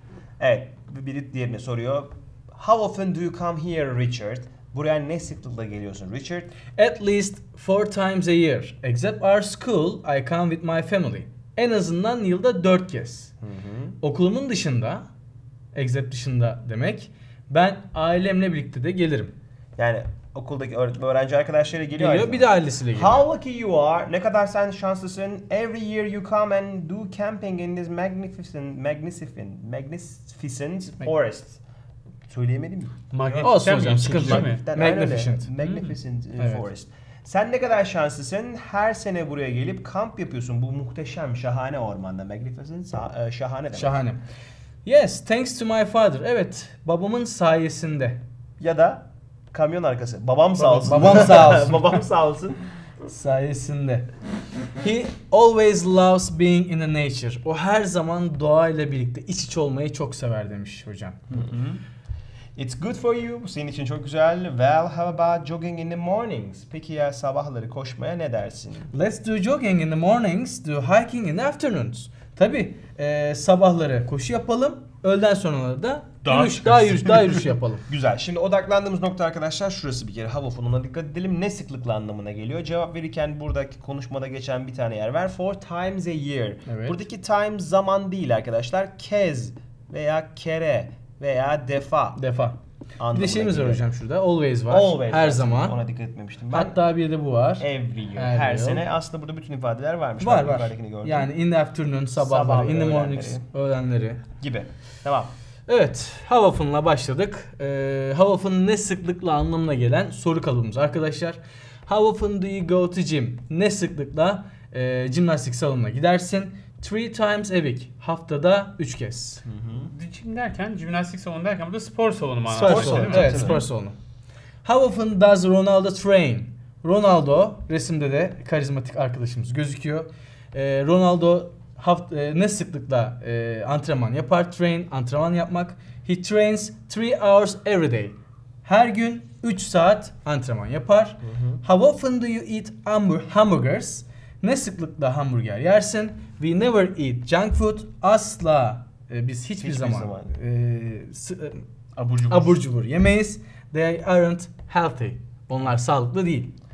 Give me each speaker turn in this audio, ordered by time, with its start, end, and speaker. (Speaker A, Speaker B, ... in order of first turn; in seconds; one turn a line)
Speaker A: 0.4-6.5
Speaker B: 6.8-13.3
Speaker A: 13.4-13.9
Speaker B: 14.0-15.0
Speaker B: 15.7-19.3
Speaker A: 19.8-31.6
Speaker B: 21.9-23.2
Speaker A: 32.3-44.0
Speaker C: 33.1-34.6
Speaker B: 33.4-35.5
Speaker C: 35.6-35.9
Speaker B: 36.4-36.6
Speaker B: 43.7-44.2
Speaker B: 44.8-48.2
Speaker A: 48.6-52.6
Speaker B: 50.6-51.9
Speaker B: 53.1-54.1
Speaker B: 54.8-61.3
Speaker C: 61.3-61.8
Speaker A: 62.5-68.9
Speaker B: 68.9-77.8
Speaker C: 76.2-77.4
Speaker A: 77.9-92.2
Speaker B: 86.7-87.0
Speaker B: 92.2-92.6
Speaker A: 93.0-93.8
Speaker B: 93.1-95.8
Speaker A: 94.7-96.8
Speaker B: 96.5-98.8
Speaker A: 97.6-101.3
Speaker B: 100.2-104.2
Speaker A: 102.2-103.4
Speaker A: 104.4-105.3
Speaker B: 105.7-119.4
Speaker A: 119.5-119.9
Speaker C: 119.9-123.6
Speaker B: 122.5-123.9
Speaker A: 122.6-123.6
Speaker B: 124.6-151.6
Speaker A: 141.2-141.6
Speaker A: 149.6-150.3
Speaker C: 151.9-152.6
Speaker B: 152.3-156.5